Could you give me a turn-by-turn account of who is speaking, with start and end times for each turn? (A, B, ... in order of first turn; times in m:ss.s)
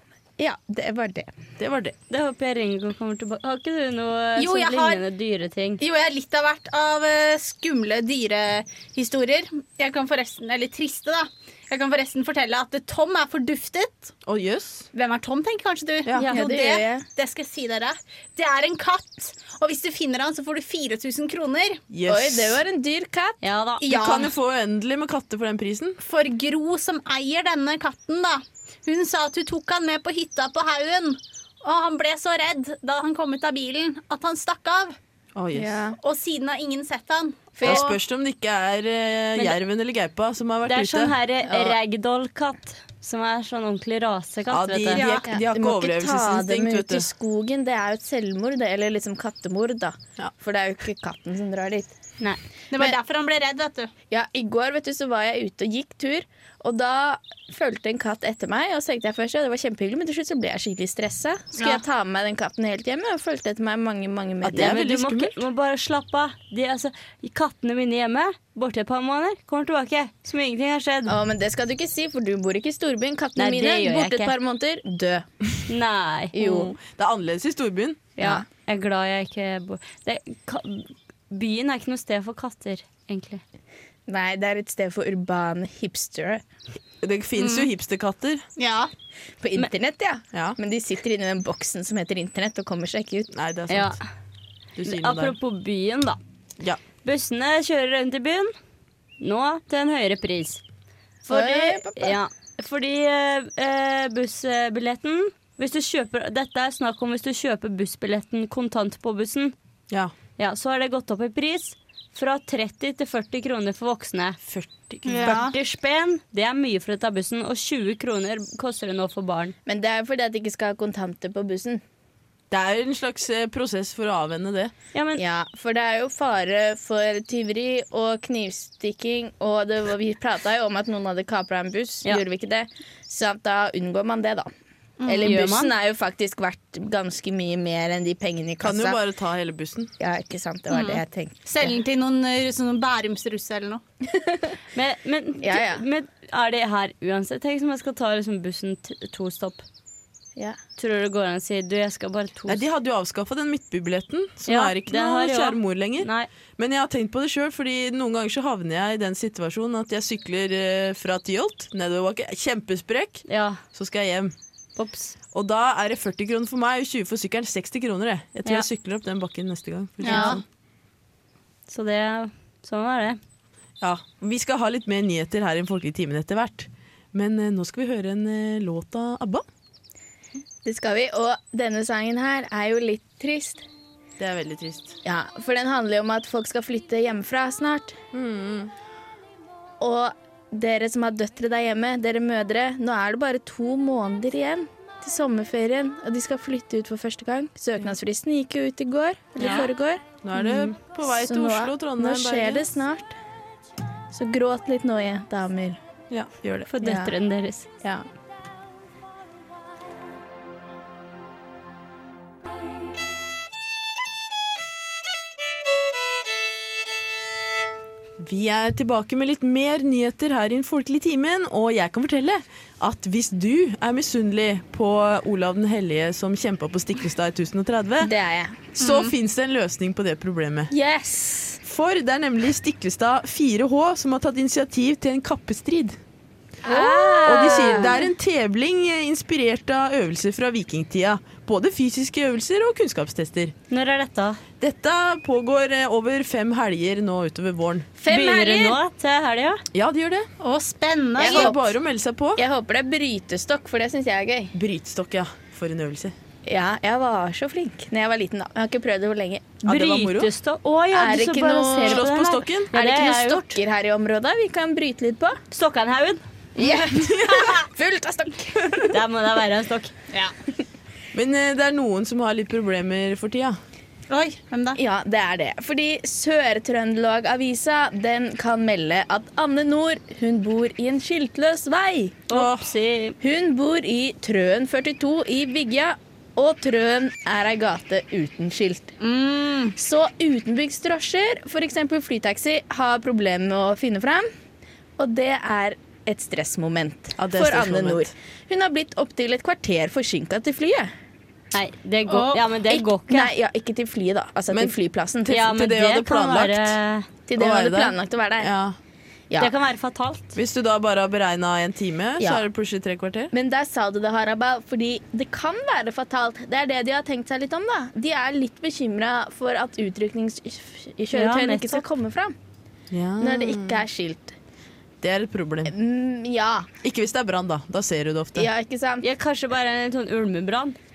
0:00.4-0:01.3 A
0:01.6-0:02.0 B
0:02.1-0:05.8 C
0:04.4-0:05.0 D
0:05.8-0:14.1 D
0:14.2-0:14.9 B
0:14.9-0:21.8 D
0:16.3-0:17.0 A
0:21.9-0:22.6 B
0:22.1-0:23.4 A
0:23.4-0:23.8 C
0:23.8-0:24.3 D
0:23.9-0:26.0 B
0:26.0-0:35.0 D
0:35.4-0:35.8 B
0:35.6-0:36.0 A
0:36.0-0:37.8 D
0:37.6-0:38.0 A
0:37.6-0:41.2 B
0:40.7-0:45.1 C
0:41.5-0:41.8 A
0:44.5-0:47.1 B
0:44.9-0:45.3 D
0:45.3-0:52.0 A
0:52.7-0:53.9 D
0:54.1-1:04.8 A
1:01.6-1:01.8 D
1:04.4-1:05.4 B
1:04.5-1:11.2 C
1:11.1-1:15.3 A
1:13.4-1:14.4 C
1:15.7-1:16.4 C
1:16.3-1:16.7 A
1:16.4-1:18.1 B
1:18.2-1:23.4 C
1:18.2-1:18.4 A
1:24.1-1:26.4 A
1:27.0-1:28.4 B
1:27.4-1:27.7 D
1:28.6-1:28.9 D
1:29.4-1:33.3 A
1:33.3-1:34.0 B
1:33.7-1:34.0 C
1:34.8-1:35.4 B
1:34.8-1:36.2 C
1:37.0-1:38.5 C
1:39.2-1:40.6 C
1:41.2-1:42.2 A
1:41.3-1:49.6 C
1:50.4-1:54.4 C
1:54.5-1:55.4 B
1:55.0-1:59.6 C
1:55.1-1:55.6 D
1:59.7-2:01.8 A
2:02.5-2:04.7 B
2:04.9-2:05.2 C
2:05.2-2:14.5 A
2:15.0-2:15.3 D
2:15.1-2:19.0 A
2:15.2-2:15.7 C
2:18.6-2:19.9 B
2:20.0-2:21.7 A
2:20.7-2:23.8 D
2:24.1-2:24.6 A
2:24.8-2:29.6 C
2:25.4-2:25.8 A
2:30.8-2:32.6 C
2:32.5-2:44.3 B
2:34.5-2:36.3 C
2:43.3-2:43.6 C
2:44.8-2:45.2 C
2:45.3-2:50.4 B
2:50.0-2:50.4 D
2:50.0-2:50.4 C
2:51.7-2:53.2 C
2:53.8-2:59.4 B
3:00.6-3:03.6 A
3:04.2-3:05.0 B
3:05.0-3:08.0 A
3:08.1-3:08.7 B
3:09.8-3:23.2 A
3:19.4-3:19.7 C
3:20.2-3:22.7 B
3:24.1-3:25.8 A
3:26.1-3:26.7 B
3:26.7-3:27.7 C
3:26.8-3:27.1 A
3:38.2-3:48.1 B
3:48.0-3:48.6 A
3:48.7-3:50.7 B
3:48.8-3:49.1 D
3:50.7-3:51.6 A
3:51.6-3:56.0 B
3:56.6-3:58.1 A
3:57.0-4:03.5 B
4:03.7-4:04.4 C
4:04.6-4:07.9 B
4:08.0-4:08.8 A
4:08.1-4:09.6 C
4:09.7-4:10.3 B
4:10.4-4:11.5 D
4:11.2-4:11.6 A
4:11.2-4:12.4 B
4:12.4-4:14.5 A
4:14.5-4:16.2 B
4:16.5-4:19.6 A
4:19.6-4:20.3 B
4:19.7-4:23.6 C
4:20.9-4:22.1 A
4:21.8-4:22.7 B
4:22.7-4:25.4 A
4:25.5-4:26.2 C
4:26.6-4:29.0 A
4:26.9-4:27.6 B
4:28.9-4:29.9 C
4:31.1-4:33.6 B
4:34.1-4:34.8 D
4:34.8-4:42.2 A
4:42.3-4:43.2 C
4:42.3-4:42.7 B
4:43.2-4:48.9 A
4:49.0-4:49.8 D
4:49.8-4:54.3 A
4:55.0-5:00.9 A
4:57.2-4:58.1 B
5:01.5-5:03.3 C
5:02.1-5:02.4 D
5:02.7-5:05.5 A
5:04.5-5:04.8 B
5:05.3-5:07.1 C
5:05.3-5:06.8 B
5:07.3-5:08.5 A
5:07.4-5:08.8 B
5:09.4-5:10.4 C
5:10.4-5:13.3 B
5:13.3-5:22.4 A
5:21.1-5:21.8 C
5:22.9-5:23.8 B
5:23.2-5:24.4 A
5:25.0-5:25.7 B
5:25.7-5:26.7 A
5:26.8-5:28.5 B
5:28.4-5:29.1 A
5:29.0-5:30.8 C